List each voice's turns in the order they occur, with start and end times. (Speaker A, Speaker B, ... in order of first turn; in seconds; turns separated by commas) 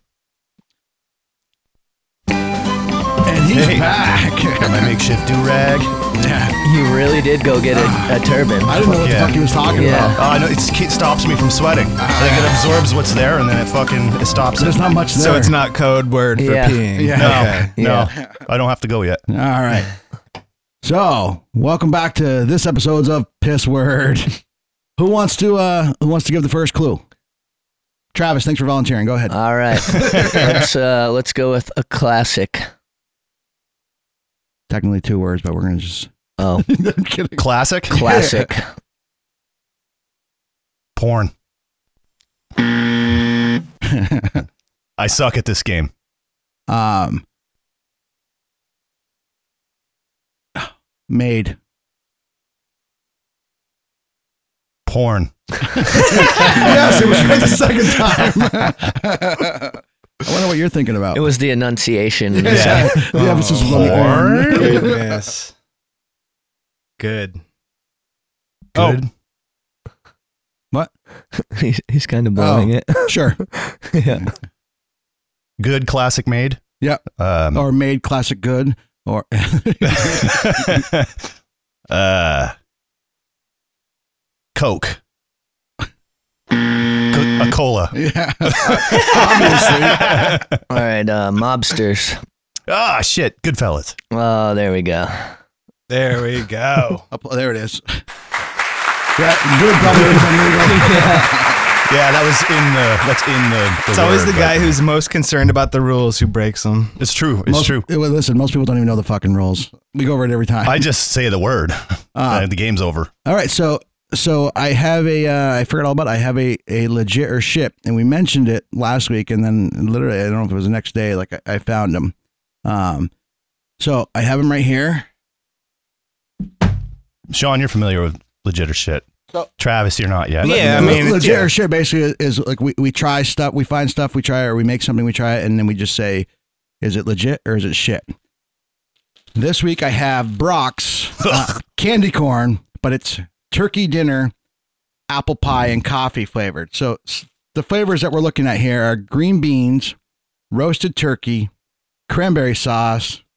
Speaker A: 3.2-4.9, Speaker B: 3.5-4.0, Speaker B: 4.6-6.0, Speaker A: 6.2-6.6, Speaker C: 6.6-9.0, Speaker A: 7.7-10.2, Speaker B: 9.0-9.4, Speaker C: 9.6-10.2, Speaker B: 10.1-14.8, Speaker A: 12.0-12.6, Speaker A: 14.6-15.6, Speaker D: 15.1-17.7, Speaker C: 16.4-16.9, Speaker A: 16.9-18.2, Speaker B: 17.1-19.2, Speaker C: 17.8-18.1, Speaker A: 19.3-19.9, Speaker A: 20.8-24.4, Speaker A: 25.0-27.0, Speaker A: 28.1-30.6, Speaker C: 29.3-32.7, Speaker A: 34.7-38.5, Speaker C: 36.4-36.6, Speaker B: 37.4-38.1, Speaker C: 37.9-38.6, Speaker B: 41.0-41.3, Speaker A: 43.8-44.5, Speaker B: 45.0-45.9, Speaker A: 46.7-47.2, Speaker A: 50.5-51.6, Speaker B: 54.9-57.4, Speaker A: 55.9-61.2, Speaker C: 61.1-63.1, Speaker A: 62.3-65.0, Speaker B: 62.5-64.9, Speaker D: 63.1-65.5, Speaker D: 67.0-67.4, Speaker B: 68.7-69.1, Speaker D: 68.8-69.0, Speaker C: 71.4-74.3, Speaker A: 72.3-73.4, Speaker B: 75.6-76.6, Speaker B: 77.2-77.6, Speaker A: 77.5-80.8, Speaker B: 79.9-81.1, Speaker B: 81.9-82.5, Speaker B: 84.5-85.0, Speaker B: 87.1-90.6, Speaker A: 87.9-90.4, Speaker C: 90.7-92.2, Speaker B: 92.7-94.0, Speaker C: 94.1-95.3, Speaker D: 95.9-97.0, Speaker A: 97.1-98.0, Speaker A: 99.2-101.6, Speaker C: 100.6-101.3, Speaker B: 101.8-104.8, Speaker D: 103.9-107.0, Speaker B: 107.0-107.9, Speaker A: 107.5-110.8, Speaker B: 110.6-113.1, Speaker A: 112.1-112.5, Speaker A: 113.2-122.1, Speaker A: 122.6-123.1, Speaker A: 123.8-125.0, Speaker B: 127.3-129.1, Speaker B: 129.6-131.1, Speaker D: 130.4-131.5, Speaker A: 130.4-136.3, Speaker A: 136.8-138.1, Speaker A: 139.3-144.3, Speaker A: 145.1-149.9, Speaker A: 150.5-151.5, Speaker A: 152.1-153.2